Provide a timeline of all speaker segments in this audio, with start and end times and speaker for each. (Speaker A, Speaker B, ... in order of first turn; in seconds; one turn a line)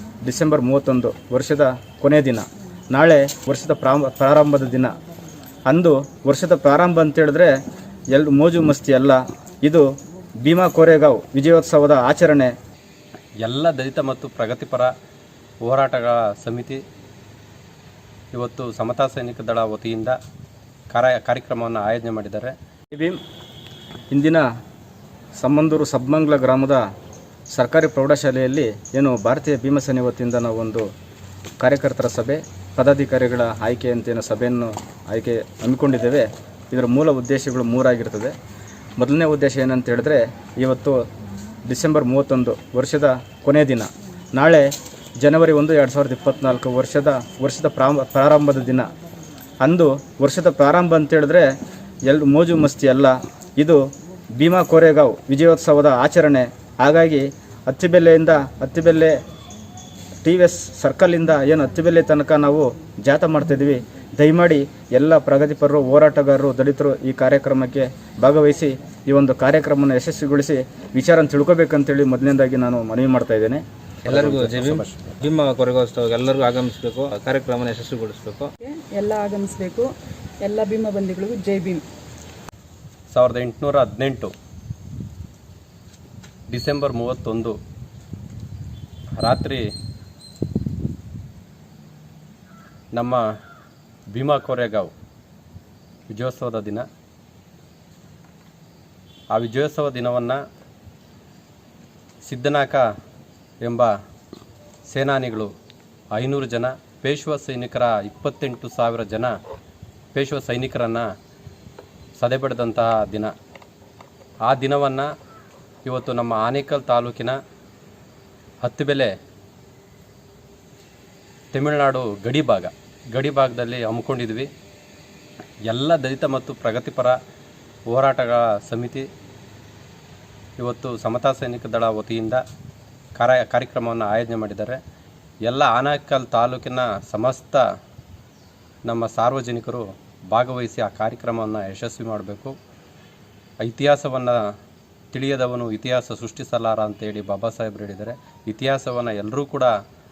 Speaker A: 0.2-5.0
Speaker A: 5.7-7.5
Speaker A: 8.1-9.8
Speaker A: 10.4-12.5
Speaker B: 13.4-14.9
Speaker B: 15.6-16.8
Speaker B: 18.3-20.2
Speaker B: 20.9-22.5
Speaker A: 24.1-24.4
Speaker A: 25.4-26.8
Speaker A: 27.5-30.8
Speaker A: 31.6-38.3
Speaker A: 39.0-41.0
Speaker A: 41.6-48.9
Speaker A: 49.6-51.5
Speaker A: 52.1-53.8
Speaker A: 54.4-59.2
Speaker A: 60.2-73.6
Speaker C: 74.0-78.5
Speaker B: 74.0-75.2
Speaker D: 78.6-79.9
Speaker D: 80.4-81.8
Speaker B: 83.1-84.3
Speaker B: 86.5-87.5
Speaker B: 89.2-89.6
Speaker B: 92.9-93.2
Speaker B: 94.1-94.9
Speaker B: 96.1-96.8
Speaker B: 99.3-100.4
Speaker B: 102.2-102.8
Speaker B: 103.6-103.9
Speaker B: 104.9-105.5
Speaker B: 106.1-109.3
Speaker B: 110.1-111.0
Speaker B: 112.2-113.3
Speaker B: 114.5-115.1
Speaker B: 115.8-117.4
Speaker B: 118.6-119.1
Speaker B: 121.5-124.5
Speaker B: 125.7-127.2
Speaker B: 127.9-129.1
Speaker B: 130.6-132.4
Speaker B: 133.2-134.8
Speaker B: 135.4-137.6
Speaker B: 138.9-142.5
Speaker B: 143.6-144.4
Speaker B: 145.1-149.7